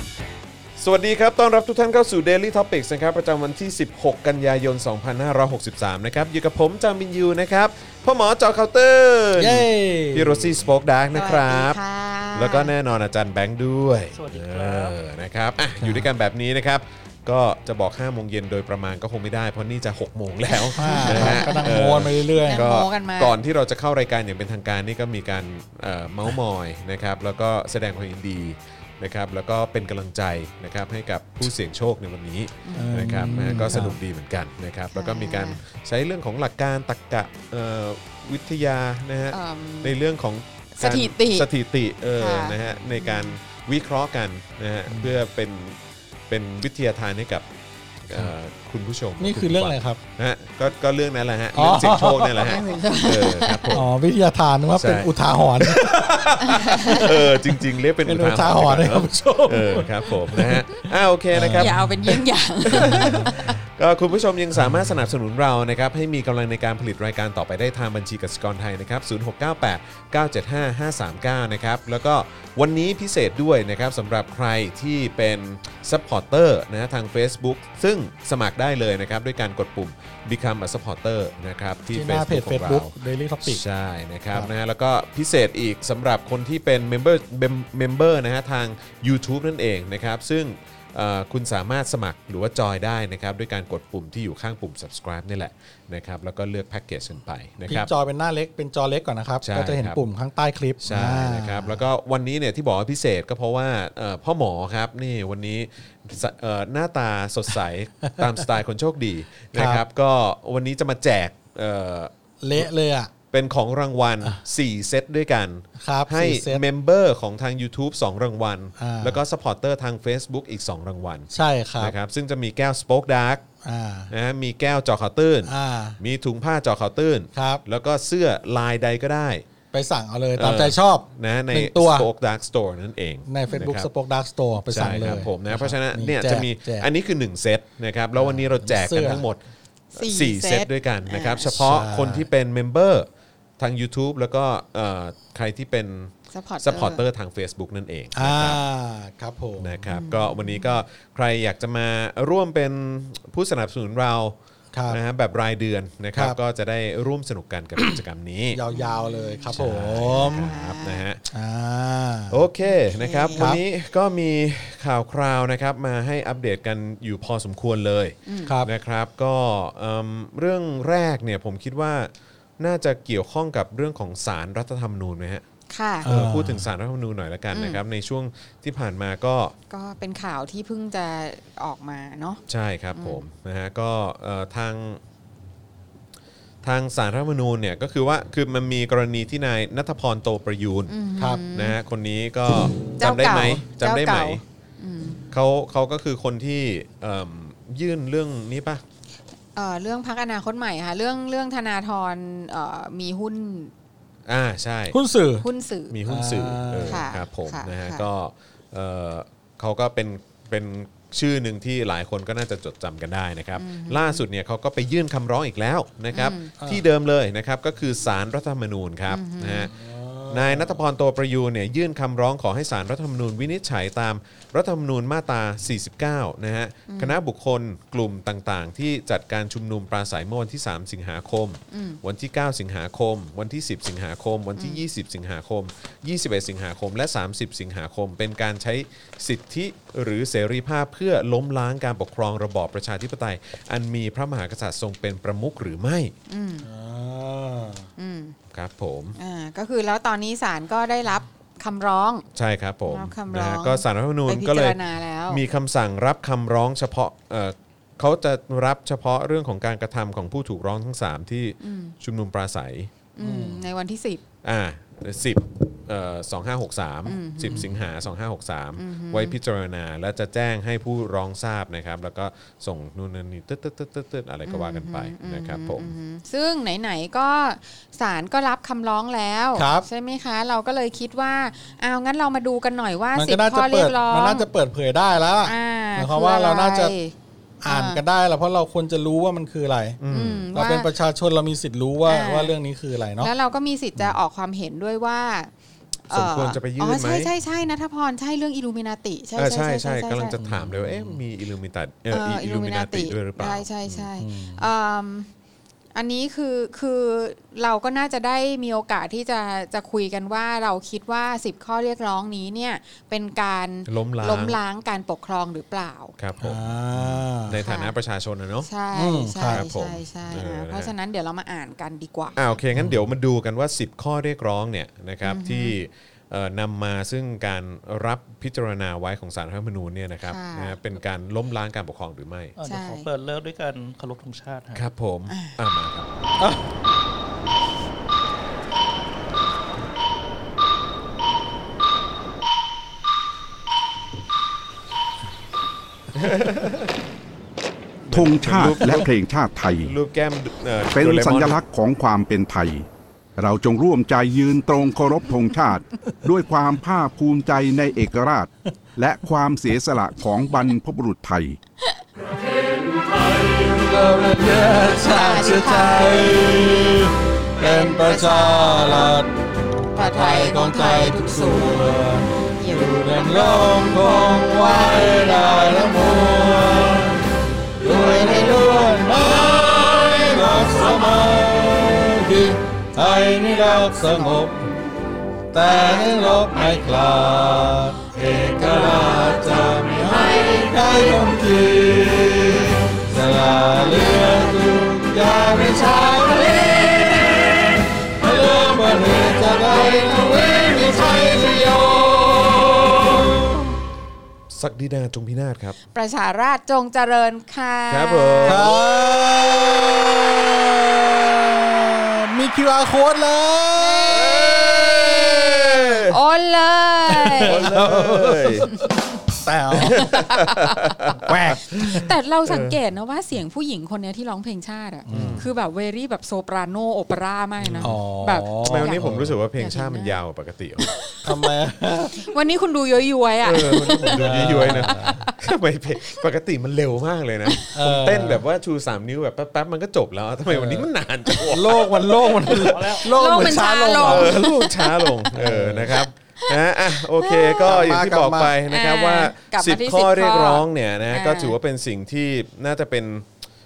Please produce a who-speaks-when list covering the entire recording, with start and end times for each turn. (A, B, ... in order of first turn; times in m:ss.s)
0:00.8-0:11.8 A
0:09.4-0:10.6 B
0:11.1-0:12.7 C
0:12.3-0:45.8 A
0:14.1-0:15.0 D
0:15.8-0:16.1 B
0:20.6-0:23.3 C
0:20.7-0:22.7 B
0:32.6-0:33.9 C
0:32.7-0:34.0 B
0:34.9-0:35.6 C
0:39.3-0:40.0 C
0:40.8-0:41.5 C
0:42.2-0:43.4 C
0:44.9-0:45.2 B
0:46.3-0:47.4 A
0:48.0-0:53.9 A
0:49.2-0:50.0 B
0:51.5-0:52.5 B
0:52.4-0:53.8 C
0:53.7-1:02.1 B
0:54.7-1:22.9 A
0:56.4-0:57.1 C
1:01.6-1:03.4 C
1:02.7-1:03.5 B
1:04.6-1:04.9 B
1:21.9-1:23.6 B
1:23.4-1:37.9 A
1:37.7-1:41.8 B
1:39.4-1:40.0 A
1:40.8-1:52.7 A
1:48.0-1:48.4 B
1:49.5-1:49.8 B
1:52.4-1:53.1 B
1:53.3-2:03.4 A
1:55.8-1:56.6 B
1:58.8-1:59.2 B
2:01.3-2:01.9 B
2:03.6-2:04.1 B
2:04.1-2:09.4 A
2:05.5-2:06.0 B
2:07.3-2:07.6 B
2:09.7-2:12.1 B
2:10.4-2:13.9 A
2:13.3-2:16.9 B
2:14.7-2:19.4 A
2:18.1-2:19.2 B
2:19.9-2:21.5 C
2:20.0-2:23.1 A
2:21.5-2:22.3 B
2:23.6-2:28.6 A
2:26.3-2:27.0 C
2:28.1-2:29.8 B
2:29.6-2:34.3 A
2:29.9-2:30.8 C
2:34.7-2:35.0 B
2:34.9-2:38.6 A
2:38.5-2:40.5 B
2:38.7-2:39.5 C
2:39.5-2:41.2 A
2:40.3-2:41.0 C
2:41.3-2:42.4 B
2:42.3-2:55.4 A
2:42.9-2:43.5 C
2:43.4-2:43.6 B
2:48.2-2:48.5 C
2:55.7-2:56.1 C
2:56.0-2:56.7 B
2:56.0-2:59.5 A
2:57.5-2:57.8 C
2:59.7-3:02.4 C
3:02.5-3:05.0 A
3:02.9-3:03.2 C
3:06.6-3:10.9 A
3:10.9-3:11.8 C
3:11.5-3:14.4 A
3:12.8-3:15.2 C
3:15.3-3:18.8 A
3:19.6-3:23.7 C
3:24.3-3:25.0 A
3:24.9-3:25.5 B
3:25.4-3:25.9 C
3:25.9-3:39.7 A
3:26.1-3:27.0 B
3:26.8-3:28.0 C
3:33.6-3:34.2 C
3:36.1-3:36.5 C
3:36.6-3:36.8 B
3:39.1-3:39.7 C
3:39.7-3:40.8 B
3:40.3-4:06.1 A
3:46.9-3:47.2 C
3:51.7-3:52.0 C
3:54.6-3:54.8 C
4:06.3-4:06.7 C
4:06.6-4:07.9 B
4:08.0-4:08.3 C
4:08.5-4:09.2 A
4:09.2-4:12.2 C
4:12.3-4:22.9 A
4:12.9-4:15.4 C
4:21.6-4:21.9 C
4:23.2-4:24.2 C
4:23.2-4:23.7 B
4:24.4-4:35.9 A
4:27.0-4:27.7 C
4:28.8-4:29.4 C
4:34.4-4:44.5 C
4:39.6-4:39.8 B
4:43.2-4:46.9 B
4:45.4-4:47.1 C
4:47.6-4:50.0 B
4:47.6-4:48.0 C
4:50.0-4:50.5 A
4:50.1-4:50.9 C
4:50.5-4:53.3 B
4:52.0-4:52.5 C
4:53.2-4:55.5 C
4:56.1-5:00.4 C
4:56.1-4:57.3 A
4:59.4-5:04.0 A
5:00.4-5:01.2 B
5:02.1-5:05.3 C
5:04.2-5:04.7 B
5:05.9-5:16.1 C
5:13.9-5:14.6 A
5:16.2-5:18.7 A
5:16.4-5:17.6 B
5:17.6-5:17.9 C
5:18.6-5:22.6 C
5:18.9-5:19.6 B
5:19.5-5:20.9 A
5:22.4-5:32.5 A
5:25.2-5:25.8 C
5:30.3-5:30.8 C
5:32.6-5:34.9 D
5:32.6-5:33.1 C
5:34.7-5:36.1 A
5:35.3-5:35.6 C
5:46.1-5:46.9 A
5:48.0-5:49.1 A
5:48.1-5:49.9 E
5:49.8-5:51.6 A
5:50.9-5:52.8 E
5:53.4-6:01.6 E
6:03.1-6:09.3 B
6:05.0-6:06.4 C
6:07.6-6:09.2 C
6:09.9-6:17.0 C
6:09.9-6:17.3 B
6:17.8-6:24.7 B
6:17.8-6:21.4 C
6:25.5-6:43.6 B
6:25.6-6:26.5 C
6:28.2-6:30.8 C
6:33.4-6:37.5 C
6:39.2-6:41.4 C
6:44.5-6:45.8 A
6:45.9-6:48.8 C
6:47.9-6:48.8 A
6:48.4-6:54.7 B
6:53.8-6:57.6 C
6:54.3-6:56.2 A
6:57.3-6:58.7 A
6:57.4-7:00.1 B
6:58.6-6:59.2 C
6:59.8-7:01.0 C
6:59.8-7:02.8 A
7:01.1-7:02.1 B
7:01.7-7:10.2 C
7:05.0-7:05.5 B
7:05.1-7:05.5 A
7:07.6-7:07.9 A
7:07.8-7:09.4 B
7:08.6-7:10.9 A
7:10.9-7:11.4 C
7:11.2-7:12.3 B
7:12.2-7:15.4 C
7:13.4-7:22.0 A
7:13.8-7:15.2 B
7:17.7-7:18.4 B
7:20.5-7:20.9 B
7:21.4-7:24.4 B
7:22.5-7:25.3 C
7:22.6-7:23.2 D
7:24.0-7:33.2 A
7:25.3-7:26.0 B
7:25.9-7:27.8 C
7:27.6-7:28.5 B
7:28.7-7:31.5 C